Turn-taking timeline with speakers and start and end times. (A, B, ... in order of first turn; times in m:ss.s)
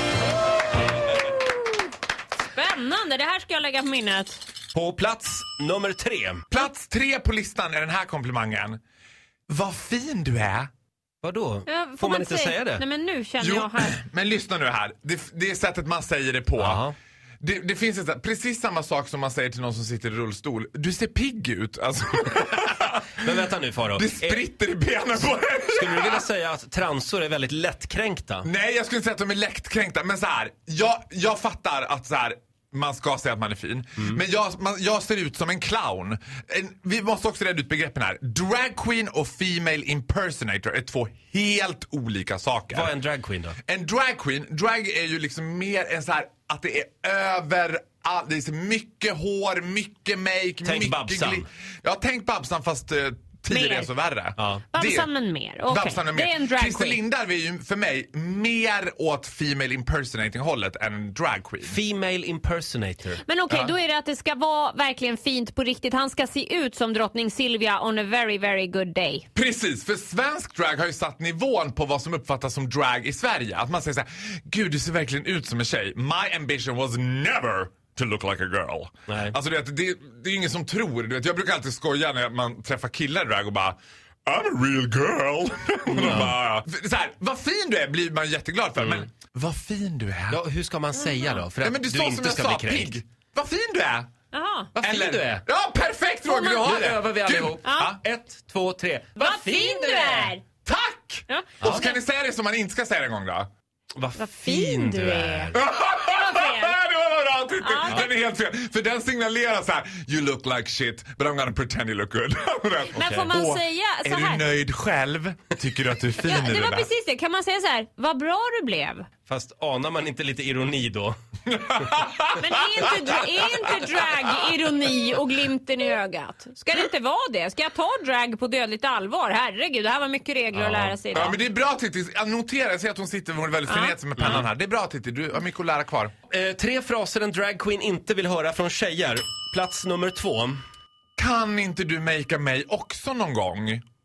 0:01.3-0:01.8 A
0:02.5-0:04.4 A
0:04.7-0:06.4 B
0:06.5-0:08.8 C
0:09.5-0:10.7 C
0:11.2-0:12.8 B
0:11.7-0:14.0 A
0:13.4-0:16.8 C
0:16.6-0:16.9 B
0:17.4-0:23.3 C
0:23.1-0:24.4 B
0:23.9-0:26.2 C
0:25.7-0:28.5 B
0:28.4-0:42.9 C
0:42.7-0:43.6 B
0:43.6-0:55.1 C
0:50.6-0:51.5 B
0:53.5-0:53.9 A
0:54.4-0:54.6 B
0:54.7-0:57.0 A
0:55.7-1:01.8 C
1:01.6-1:03.2 B
1:03.2-1:09.2 A
1:03.5-1:03.7 C
1:09.3-1:30.4 C
1:19.1-1:19.3 B
1:25.9-1:26.4 B
1:28.8-1:29.1 B
1:30.3-1:33.0 B
1:31.0-1:31.4 A
1:31.6-1:34.1 C
1:34.3-1:34.7 A
1:34.8-1:35.4 B
1:34.8-1:38.0 C
1:36.3-1:40.3 B
1:37.6-1:38.0 A
1:39.2-1:40.4 A
1:40.6-1:43.5 C
1:41.3-1:42.0 A
1:41.6-1:41.9 B
1:44.0-1:45.6 B
1:44.2-1:46.8 A
1:45.5-1:56.9 C
1:47.6-1:48.1 A
1:52.9-1:54.5 A
1:53.0-1:53.3 B
1:56.2-1:59.0 A
1:59.3-2:01.1 B
2:01.5-2:03.2 C
2:02.4-2:11.4 A
2:10.5-2:11.0 B
2:11.1-2:16.1 C
2:13.7-2:14.0 A
2:14.2-2:14.4 B
2:16.3-2:20.6 B
2:21.2-2:23.8 C